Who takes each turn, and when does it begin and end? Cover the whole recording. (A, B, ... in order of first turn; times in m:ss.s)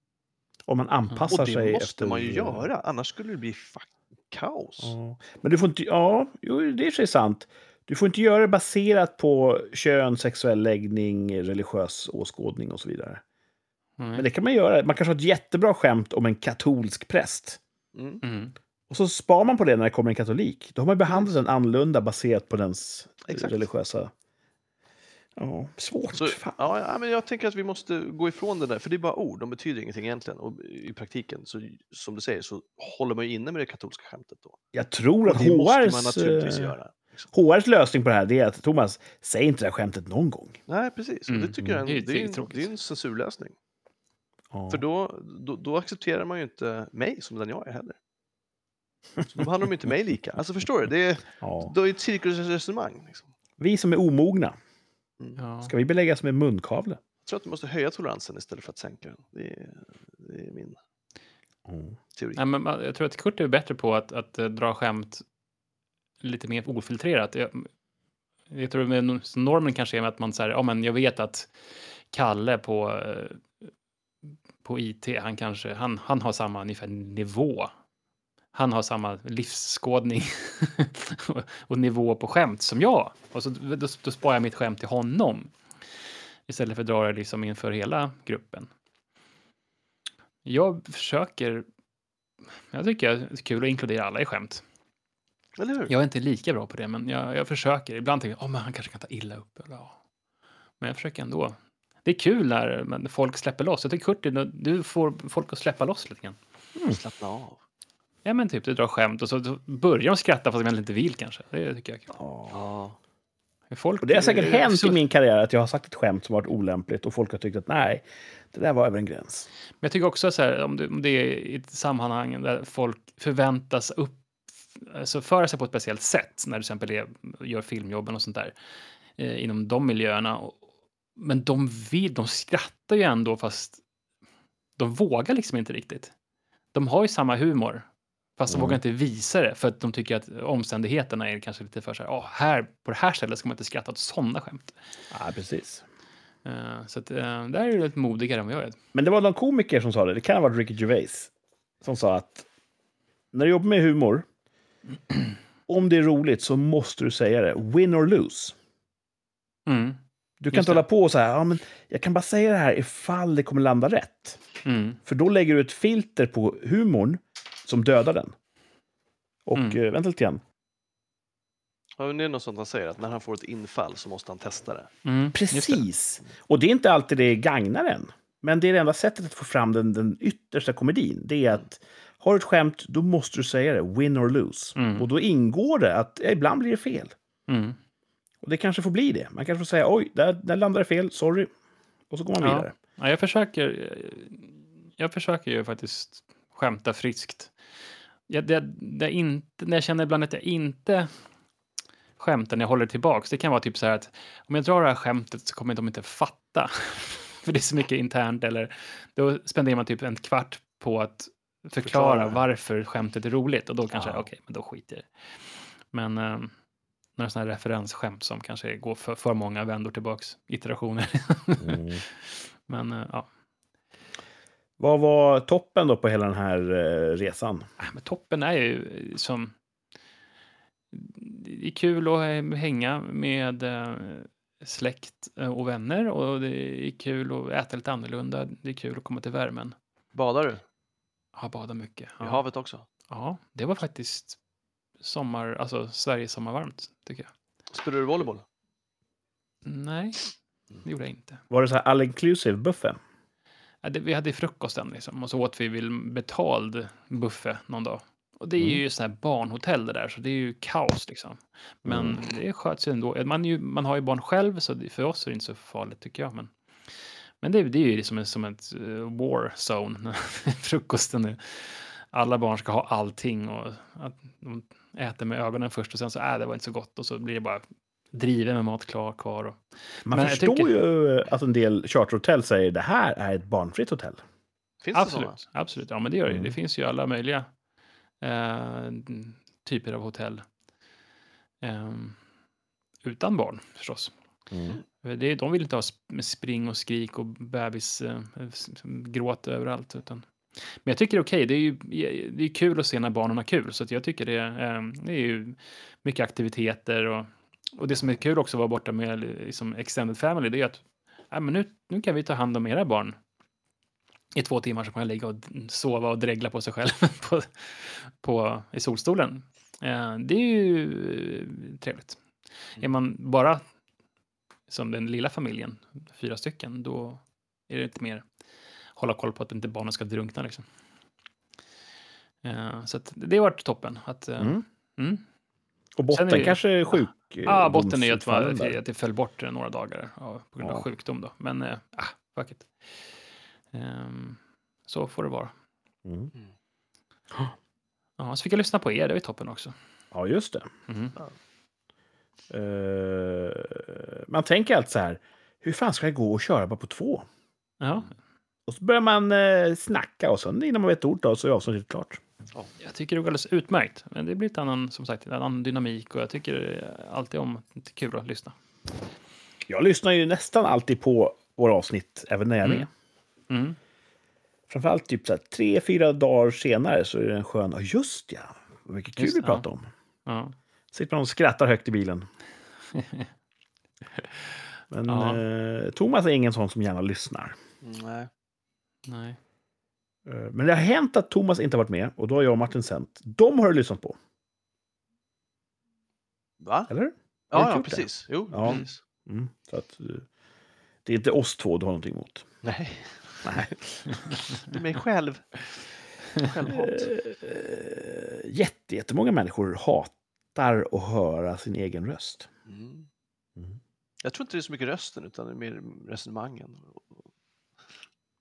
0:00.7-0:02.7 A
0:01.3-0:04.9 B
0:04.8-0:13.2 A
0:14.0-0:14.2 C
0:14.1-0:17.6 A
0:17.9-0:18.2 B
0:18.2-0:18.5 C
0:18.9-0:24.1 A
0:23.3-0:23.6 B
0:25.4-0:26.6 A
0:26.1-0:34.6 B
0:34.7-0:36.7 A
0:35.3-0:37.3 B
0:37.3-0:40.6 A
0:40.7-0:43.6 B
0:41.3-0:42.7 C
0:44.5-0:44.8 A
0:44.7-0:48.0 B
0:49.3-0:53.3 B
0:51.4-0:51.7 A
0:53.6-0:54.5 A
0:55.4-0:55.7 C
0:55.6-0:57.0 A
0:57.2-1:00.8 B
1:01.6-1:02.0 A
1:02.2-1:02.4 B
1:02.3-1:05.2 C
1:06.2-1:07.7 C
1:08.5-1:11.5 C
1:12.1-1:13.4 C
1:14.6-1:17.7 C
1:18.5-1:25.5 C
1:26.5-1:28.7 C
1:30.4-1:31.6 C
1:32.7-1:34.6 C
1:35.6-1:35.9 B
1:35.9-1:39.9 C
1:40.8-1:46.4 C
1:46.9-1:47.6 B
1:48.2-1:52.1 C
1:52.1-1:52.6 A
1:52.5-1:53.0 B
1:53.7-1:55.0 C
1:54.0-1:59.5 A
1:59.8-2:04.2 C
2:04.7-2:08.5 C
2:09.2-2:10.6 C
2:11.2-2:13.8 C
2:14.8-2:16.1 C
2:16.7-2:17.8 C
2:18.4-2:24.7 C
2:18.5-2:18.8 A
2:25.1-2:25.8 A
2:26.4-2:28.8 C
2:28.9-2:31.3 A
2:31.8-2:32.5 A
2:33.3-2:34.2 A
2:35.7-2:38.5 A
2:39.7-2:40.0 C
2:40.4-2:44.4 A
2:40.5-2:40.8 C
2:44.6-2:45.0 C
2:45.0-2:48.3 A
2:49.4-2:50.4 A
2:52.0-2:54.9 B
2:55.0-2:55.8 C
2:55.3-3:07.1 A
3:04.8-3:05.1 C
3:07.5-3:07.8 C
3:08.4-3:11.5 A
3:12.1-3:12.7 A
3:12.4-3:17.5 C
3:18.3-3:21.1 C
3:22.2-3:35.1 C
3:31.8-3:32.4 A
3:33.9-3:34.3 A
3:35.9-3:36.5 C
3:37.2-3:43.3 C
3:41.6-3:42.0 A
3:44.8-3:47.7 A
3:47.8-3:49.5 C
3:50.9-3:59.7 C
4:00.1-4:00.6 B
4:01.3-4:02.4 C
4:02.2-4:02.8 B
4:03.1-4:04.4 C
4:05.0-4:07.3 C
4:07.7-4:08.4 B
4:09.6-4:10.3 C
4:10.8-4:11.4 C
4:11.5-4:13.0 A
4:13.8-4:26.5 C
4:21.8-4:22.2 A
4:27.4-4:40.7 C
4:40.1-4:44.2 A
4:44.8-4:45.4 B
4:44.9-4:47.5 C
4:46.3-4:46.6 A
4:48.2-4:50.4 C
4:51.6-4:52.2 C
4:53.0-4:54.1 C
4:54.5-4:54.8 A
4:55.0-5:00.2 C
5:00.8-5:13.2 C
5:14.3-5:22.2 C
5:22.8-5:23.6 C
5:24.7-5:28.2 C
5:29.0-5:30.6 C
5:32.4-5:35.2 C
5:36.0-5:38.8 A
5:36.1-5:42.7 C
5:43.7-5:45.5 C
5:46.0-5:46.3 A
5:48.2-5:49.7 C
5:50.1-5:50.7 A
5:50.9-5:51.2 C
5:52.5-5:57.2 A
5:57.8-5:58.1 C
5:58.7-6:02.2 A
6:02.8-6:08.5 C
6:09.7-6:12.9 A
6:13.5-6:13.8 C
6:14.7-6:19.9 A
6:19.2-6:19.6 C
6:20.2-6:20.5 C
6:20.9-6:22.3 A
6:22.9-6:23.3 C
6:24.9-6:27.6 A
6:25.1-6:25.4 C
6:27.8-6:28.3 B
6:29.1-6:29.4 C
6:30.2-6:34.2 A
6:36.6-6:36.9 B
6:36.9-6:40.2 A
6:37.5-6:39.0 B
6:41.0-6:42.4 A
6:42.6-6:45.6 B
6:43.4-6:43.7 A
6:46.3-6:47.1 B
6:46.7-6:52.5 A
6:52.7-6:53.1 B
6:54.2-6:57.2 B